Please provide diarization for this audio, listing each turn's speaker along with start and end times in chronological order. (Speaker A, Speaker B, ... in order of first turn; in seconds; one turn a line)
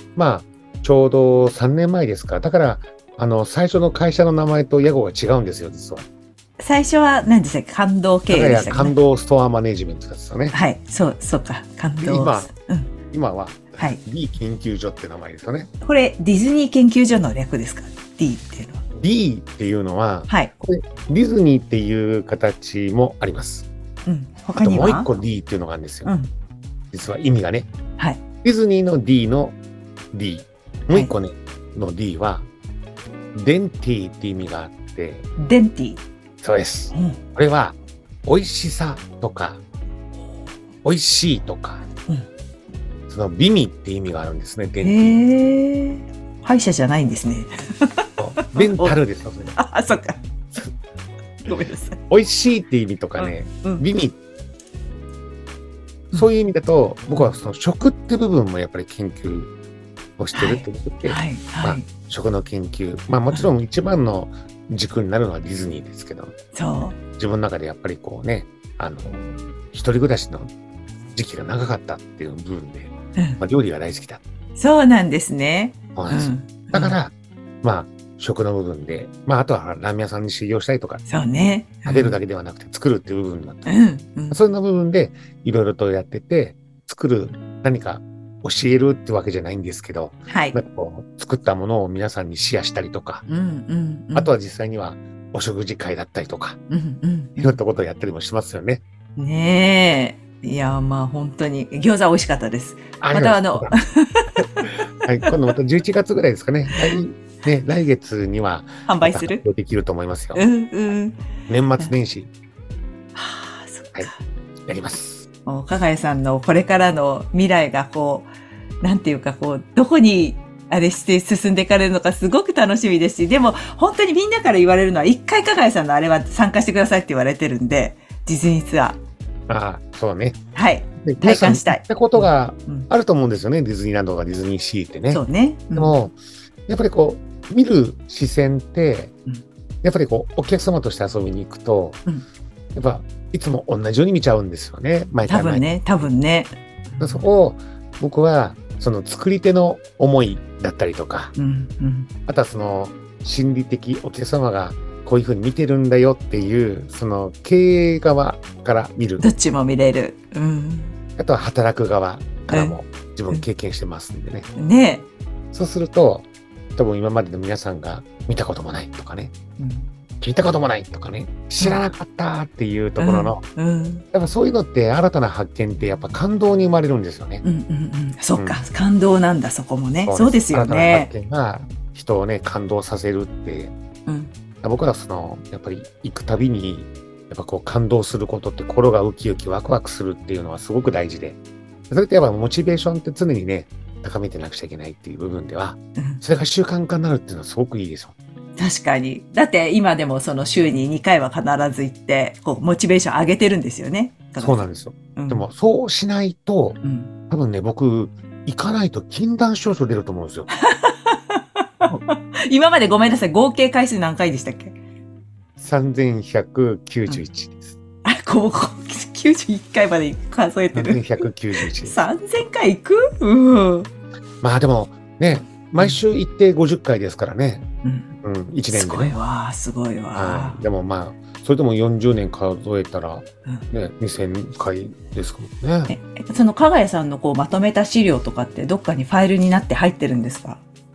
Speaker A: 0.2-6.1
Speaker B: 6.6-8.9
Speaker A: 8.3-10.6
Speaker B: 10.5-12.9
Speaker A: 12.0-12.5
Speaker A: 13.1-15.7
Speaker B: 15.8-18.8
Speaker A: 18.9-23.7
Speaker B: 24.1-25.1
Speaker A: 24.6-26.1
Speaker B: 26.1-26.3
Speaker A: 26.9-27.7
Speaker A: 28.4-29.6
Speaker A: 30.1-32.5
Speaker A: 33.4-35.3
Speaker B: 35.4-36.0
Speaker A: 36.4-39.6
Speaker B: 36.9-37.2
Speaker A: 40.8-41.8
Speaker A: 43.1-45.2
Speaker B: 44.8-49.0
Speaker A: 48.2-49.6
Speaker B: 49.6-50.2
Speaker B: 51.5-52.0
Speaker A: 52.1-54.2
Speaker B: 53.2-53.9
Speaker A: 56.1-59.5
Speaker A: 60.2-66.4
Speaker B: 60.3-61.9
Speaker B: 66.5-67.0
Speaker A: 67.2-70.5
Speaker A: 71.1-74.2
Speaker B: 73.2-73.4
Speaker B: 74.6-77.0
Speaker A: 76.0-81.0
Speaker B: 81.1-82.2
Speaker A: 81.8-83.7
Speaker B: 83.7-84.4
Speaker A: 84.3-93.2
Speaker B: 90.3-90.6
Speaker B: 93.3-94.3
Speaker A: 94.2-96.6
Speaker B: 96.7-97.6
Speaker A: 97.4-98.8
Speaker B: 99.2-105.4
Speaker A: 103.0-103.8
Speaker A: 104.6-110.5
Speaker B: 106.7-107.0
Speaker B: 108.9-109.4
Speaker B: 110.3-111.2
Speaker A: 111.5-112.3
Speaker B: 113.2-114.2
Speaker A: 114.7-115.3
Speaker B: 115.5-118.3
Speaker B: 118.8-129.0
Speaker A: 129.5-130.4
Speaker B: 130.6-132.9
Speaker A: 131.0-135.2
Speaker B: 135.1-136.0
Speaker A: 135.8-136.1
Speaker A: 136.7-139.1
Speaker A: 139.8-142.0
Speaker A: 142.7-145.7
Speaker B: 145.3-147.3
Speaker A: 147.0-151.3
Speaker B: 151.4-152.1
Speaker A: 152.3-159.3
Speaker B: 159.2-161.0
Speaker A: 161.2-164.5
Speaker B: 162.5-162.8
Speaker B: 164.6-165.1
Speaker A: 165.5-169.3
Speaker B: 169.6-169.9
Speaker A: 170.2-173.4
Speaker B: 171.6-171.9
Speaker B: 173.0-174.1
Speaker A: 174.1-177.4
Speaker B: 177.4-181.1
Speaker A: 178.4-178.6
Speaker A: 180.0-183.8
Speaker B: 184.1-184.3
Speaker A: 184.6-191.4
Speaker A: 191.9-198.2
Speaker B: 198.6-204.6
Speaker A: 204.4-206.8
Speaker B: 205.2-205.5
Speaker B: 206.8-207.1
Speaker A: 207.3-210.5
Speaker B: 210.5-214.8
Speaker A: 215.6-217.8
Speaker B: 218.0-223.9
Speaker A: 220.7-222.0
Speaker A: 224.4-227.7
Speaker B: 227.8-228.2
Speaker A: 228.2-229.2
Speaker B: 228.7-230.6
Speaker A: 230.1-235.9
Speaker B: 235.9-240.6